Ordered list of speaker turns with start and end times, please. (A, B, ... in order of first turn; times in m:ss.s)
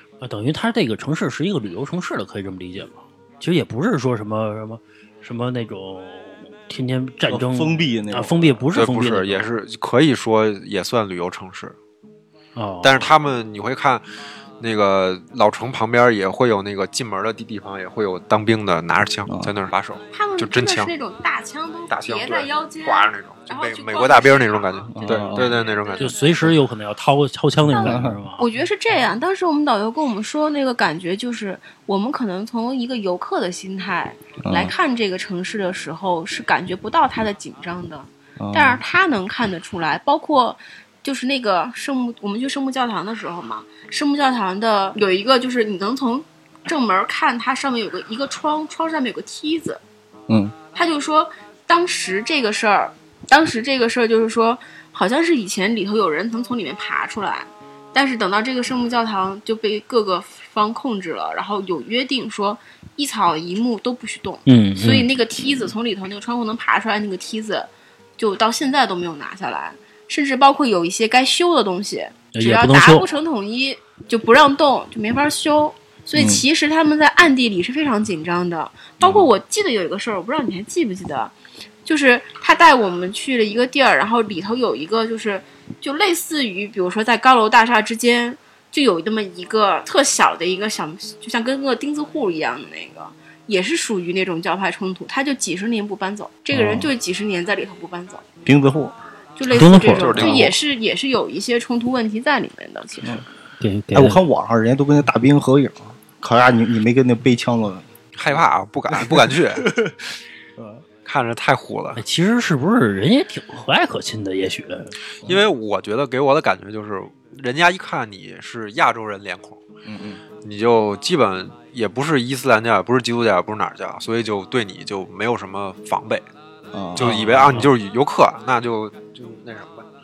0:00.2-0:09.5 A
0:07.3-0:08.7 B
0:08.7-0:11.8 C
0:12.6-0:13.1 A
0:12.8-0:14.0 C
0:14.6-0:20.9 C
0:19.3-0:19.5 B
0:20.1-0:26.5 D
0:21.9-0:26.2 C
0:24.9-0:25.5 B
0:26.0-0:28.4 A
0:27.7-0:49.8 D
0:27.7-0:28.2 B
0:34.4-0:34.8 B
0:38.4-0:38.8 B
0:50.3-0:50.6 B
0:50.7-1:21.3 D
1:04.5-1:05.1 A
1:12.3-1:13.1 A
1:16.2-1:16.4 B
1:21.8-1:38.2 D
1:36.5-1:36.9 B
1:38.4-1:39.0 B
1:39.4-1:43.3 D
1:39.5-1:40.4 A
1:39.9-1:40.6 C
1:40.2-1:40.5 B
1:43.6-1:44.2 A
1:43.9-1:50.8 B
1:48.2-1:49.7 C
1:51.1-1:52.0 C
1:52.0-1:55.0 A
1:55.2-1:59.6 C
1:59.9-2:00.2 B
2:00.4-2:06.2 C
2:06.7-2:07.7 B
2:07.0-2:09.9 C
2:07.0-2:07.7 A